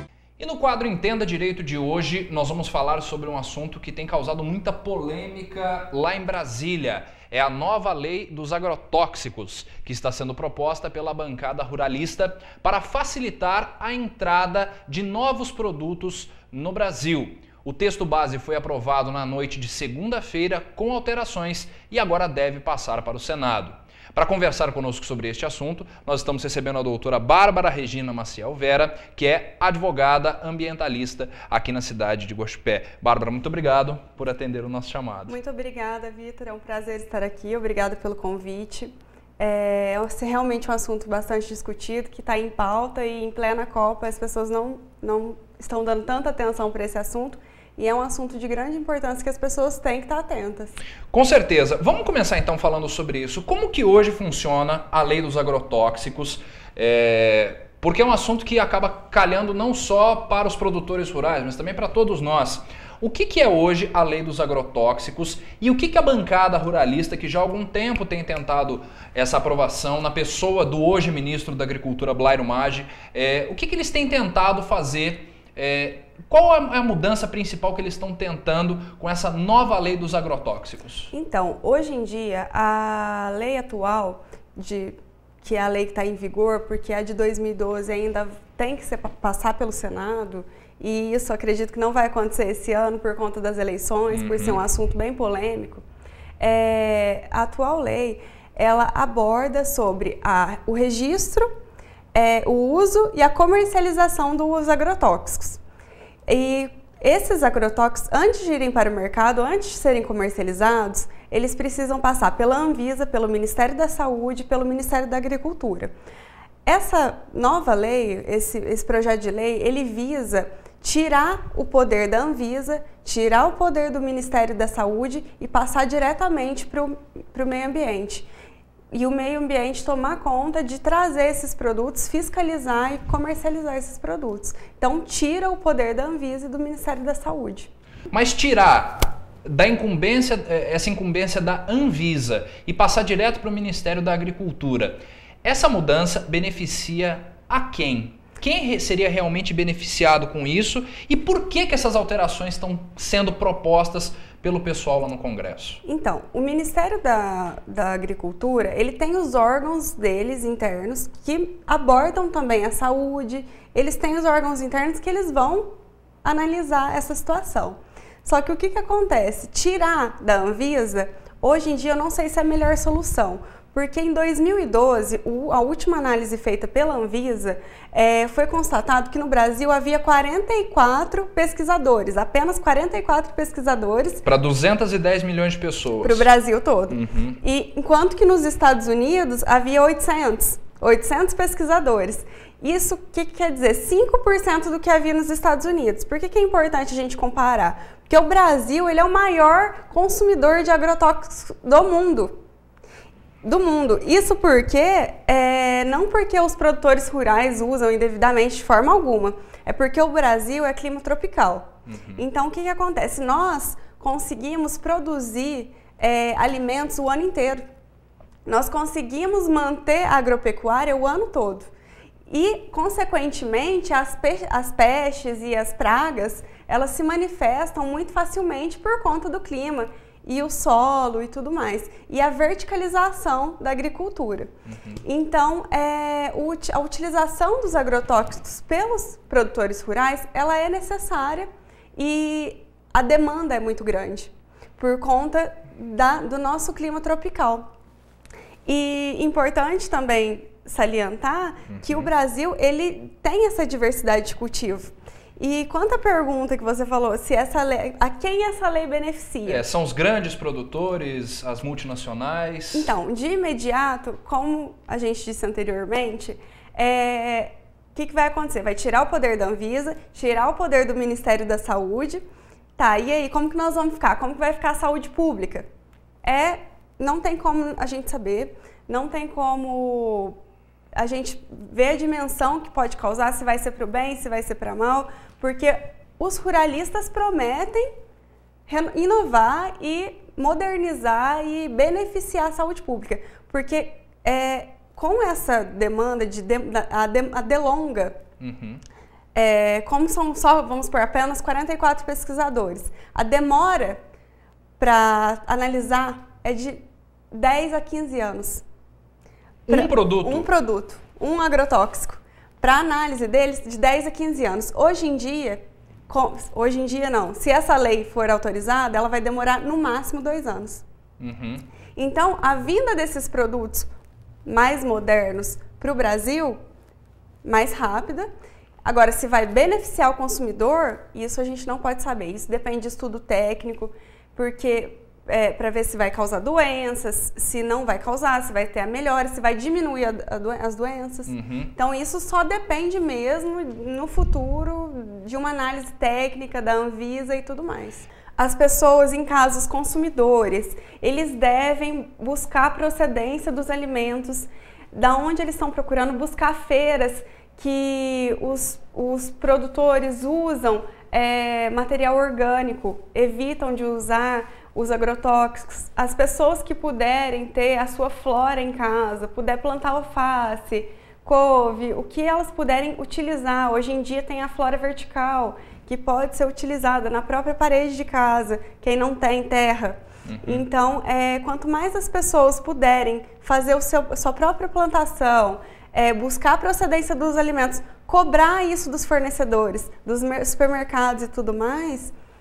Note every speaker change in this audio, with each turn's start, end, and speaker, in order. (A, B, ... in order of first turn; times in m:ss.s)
0:00.4-0:35.4 A
0:35.3-0:50.8 B
0:51.1-1:21.1 A
1:21.1-1:35.8 B
1:34.1-1:34.6 A
1:36.4-1:41.5 B
1:42.1-1:45.6 B
1:46.3-1:55.9 B
1:56.7-2:08.3 B
2:08.9-2:17.7 B
2:18.1-2:35.8 A
2:35.8-2:45.7 B
2:46.2-3:04.2 B
3:04.2-3:06.3 A
3:06.0-3:22.3 B
3:06.9-3:07.4 A
3:23.4-3:37.6 B
3:31.9-3:32.2 A
3:38.4-3:41.7 B
3:42.3-3:54.5 B
3:54.7-3:55.0 A
3:55.0-4:07.7 B
4:08.6-4:19.7 B
4:11.8-4:12.1 A
4:19.5-4:23.0 A
4:22.7-4:32.2 B
4:32.8-4:35.7 B
4:36.2-4:40.4 B
4:41.0-4:47.9 B
4:48.7-4:58.2 B
4:58.4-4:58.8 A
4:59.4-5:04.0 B
5:04.8-5:08.6 B
5:09.7-5:10.5 A
5:09.7-5:20.8 B
5:21.2-5:21.6 A
5:22.0-5:23.9 B
5:24.4-5:26.6 B
5:27.4-5:28.3 B
5:28.8-6:32.1 B
5:41.3-5:41.7 A
6:20.3-6:20.6 A